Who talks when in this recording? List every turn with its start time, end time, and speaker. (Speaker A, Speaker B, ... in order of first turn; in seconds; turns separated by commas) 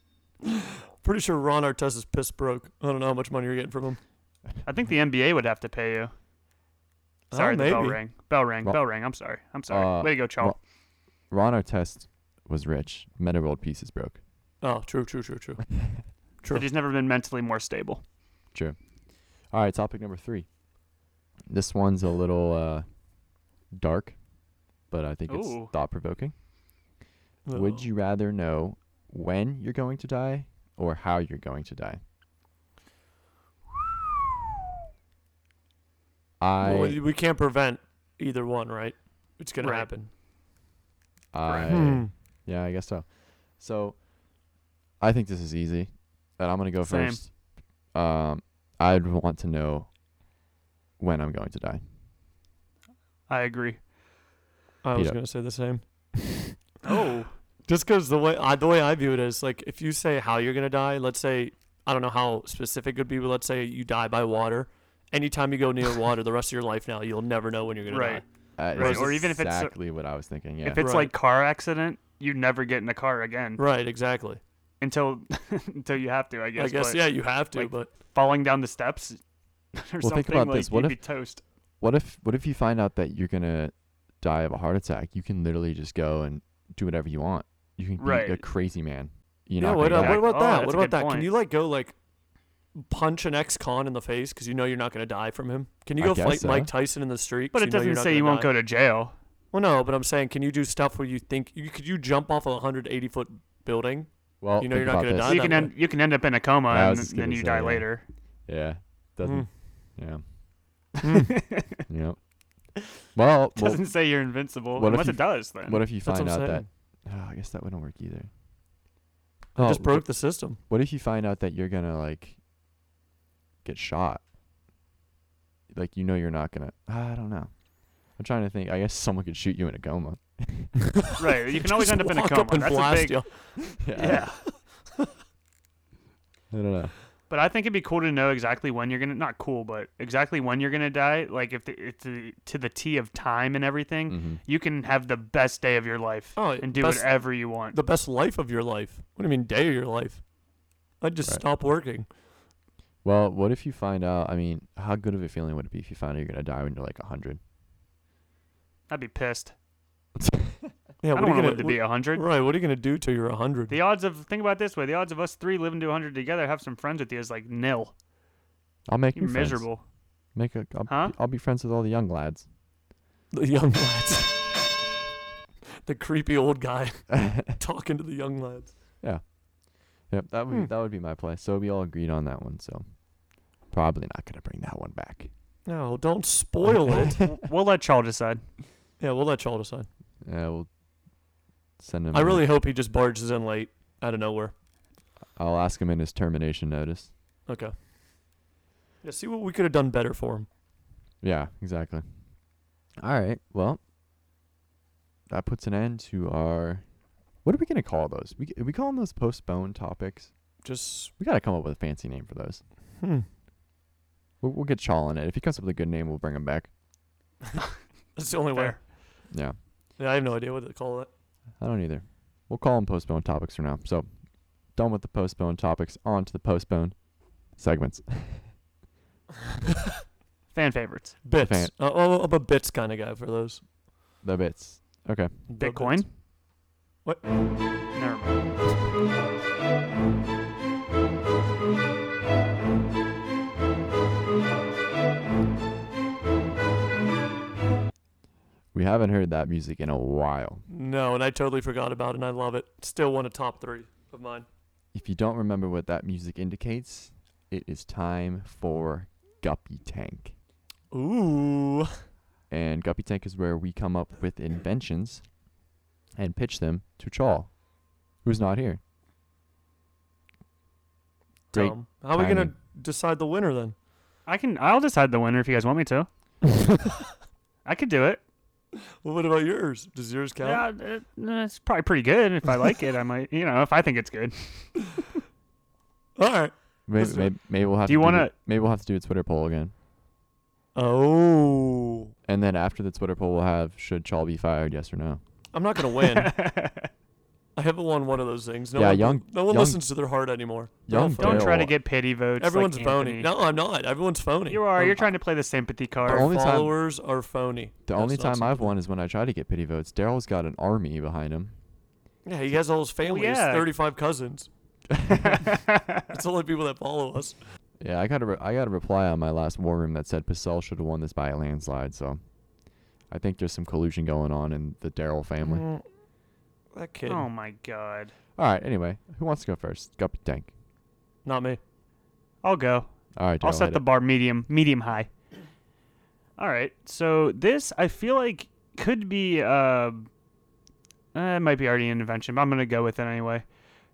Speaker A: 0.5-4.0, Speaker B: 4.6-6.1, Speaker A: 7.3-8.0, Speaker B: 7.3-10.6, Speaker C: 9.7-10.6, Speaker C: 11.3-14.2, Speaker A: 14.6-15.7, Speaker A: 16.4-16.7, Speaker B: 16.5-18.0, Speaker C: 19.5-20.5, Speaker C: 21.5-22.9, Speaker C: 23.7-24.2, Speaker C: 24.9-26.3, Speaker B: 25.3-25.7, Speaker A: 27.5-27.9, Speaker C: 27.5-32.0, Speaker C: 36.4-37.0, Speaker A: 36.6-40.1, Speaker B: 39.6-39.9, Speaker C: 41.3-44.0, Speaker B: 41.5-41.7, Speaker A: 41.7-42.1, Speaker C: 45.0-47.4, Speaker B: 46.8-47.2, Speaker C: 47.9-49.9, Speaker C: 51.0-51.8, Speaker B: 53.3-53.8, Speaker A: 54.8-56.5, Speaker B: 56.8-57.3, Speaker A: 57.7-68.2, Speaker B: 67.9-68.2, Speaker C: 68.6-70.9, Speaker B: 68.8-69.7, Speaker A: 68.8-69.2, Speaker B: 70.6-73.6, Speaker A: 70.8-71.1, Speaker A: 73.6-74.4, Speaker B: 74.8-79.2, Speaker A: 76.6-77.9, Speaker B: 79.8-81.4, Speaker C: 80.0-81.0, Speaker C: 81.8-90.2, Speaker B: 88.0-88.4, Speaker A: 89.6-92.0, Speaker B: 89.9-91.3, Speaker A: 92.8-98.5, Speaker C: 96.0-96.7, Speaker B: 97.5-99.1, Speaker A: 99.5-105.7, Speaker C: 104.4-105.7, Speaker B: 105.2-108.0, Speaker C: 106.7-107.9, Speaker C: 108.5-110.2, Speaker A: 109.2-109.5, Speaker A: 111.0-111.3, Speaker B: 111.0-111.8, Speaker C: 111.9-112.2, Speaker C: 113.2-113.9, Speaker B: 113.6-115.8, Speaker C: 114.8-118.3, Speaker A: 116.0-116.7, Speaker A: 119.6-120.6, Speaker C: 119.6-122.4, Speaker C: 123.6-124.2, Speaker C: 125.7-127.5, Speaker C: 128.2-130.8, Speaker A: 131.0-135.1, Speaker B: 131.2-133.2, Speaker C: 133.8-134.4, Speaker B: 133.9-134.4, Speaker C: 136.5-136.9, Speaker B: 137.3-147.8, Speaker C: 144.1-144.4, Speaker A: 146.4-150.2, Speaker A: 151.0-152.1, Speaker C: 153.0-157.4, Speaker B: 158.9-159.5, Speaker C: 160.2-160.7, Speaker A: 161.0-163.8, Speaker B: 161.2-162.2, Speaker B: 163.7-167.9, Speaker C: 168.9-169.7, Speaker B: 169.2-169.8, Speaker C: 170.3-172.5, Speaker B: 170.9-171.1, Speaker A: 173.3-174.6, Speaker A: 175.8-178.8, Speaker C: 177.1-177.5, Speaker C: 180.1-182.8, Speaker C: 183.7-185.3, Speaker A: 185.7-187.2, Speaker B: 187.0-188.4, Speaker A: 189.0-189.9, Speaker C: 190.2-190.7, Speaker C: 191.8-192.5, Speaker A: 192.1-194.5, Speaker C: 195.4-197.1, Speaker A: 197.5-197.7, Speaker A: 199.0-200.5, Speaker C: 201.2-202.1, Speaker C: 203.0-203.8, Speaker C: 205.3-206.8, Speaker C: 207.4-210.3, Speaker A: 210.6-211.1, Speaker C: 211.2-212.6, Speaker A: 213.0-213.3, Speaker C: 214.4-216.7, Speaker A: 218.2-218.8, Speaker B: 218.5-218.8, Speaker C: 219.3-219.6, Speaker A: 220.0-221.1, Speaker C: 221.6-224.1, Speaker C: 224.7-227.0, Speaker C: 227.5-228.5, Speaker B: 230.5-231.2, Speaker A: 231.2-233.6, Speaker C: 231.4-231.7, Speaker C: 234.2-235.3, Speaker A: 235.5-236.1, Speaker B: 235.6-236.1, Speaker A: 237.1-237.3, Speaker B: 237.9-238.4, Speaker C: 248.7-250.7, Speaker A: 250.7-254.5, Speaker C: 254.9-260.4, Speaker A: 260.9-262.0, Speaker C: 262.5-265.2, Speaker C: 266.2-267.5, Speaker C: 268.2-268.8, Speaker A: 271.5-273.8, Speaker C: 271.5-272.5, Speaker B: 274.3-276.1, Speaker A: 276.5-277.1, Speaker B: 277.6-278.2, Speaker A: 279.0-280.6, Speaker B: 280.4-285.0, Speaker A: 286.2-287.3, Speaker C: 286.9-289.7, Speaker B: 287.9-288.3, Speaker A: 290.8-292.1, Speaker C: 292.3-295.2, Speaker A: 295.5-296.3, Speaker B: 296.0-296.9, Speaker A: 297.6-301.6, Speaker C: 298.8-299.8, Speaker C: 300.9-301.7, Speaker B: 301.2-303.3, Speaker A: 302.4-305.0, Speaker B: 304.5-306.3, Speaker C: 306.1-306.8, Speaker A: 306.1-308.7, Speaker C: 307.9-311.6, Speaker A: 312.3-314.5, Speaker B: 313.0-313.7, Speaker C: 314.9-315.4, Speaker B: 315.2-316.1, Speaker A: 316.1-317.4, Speaker C: 317.8-322.2, Speaker C: 323.1-325.7, Speaker A: 325.4-325.9, Speaker A: 326.7-327.3, Speaker B: 327.1-328.1, Speaker C: 328.4-330.5, Speaker A: 331.2-331.6, Speaker B: 332.4-332.9, Speaker C: 333.2-333.8, Speaker B: 333.4-335.1, Speaker B: 336.4-340.1, Speaker B: 341.1-343.4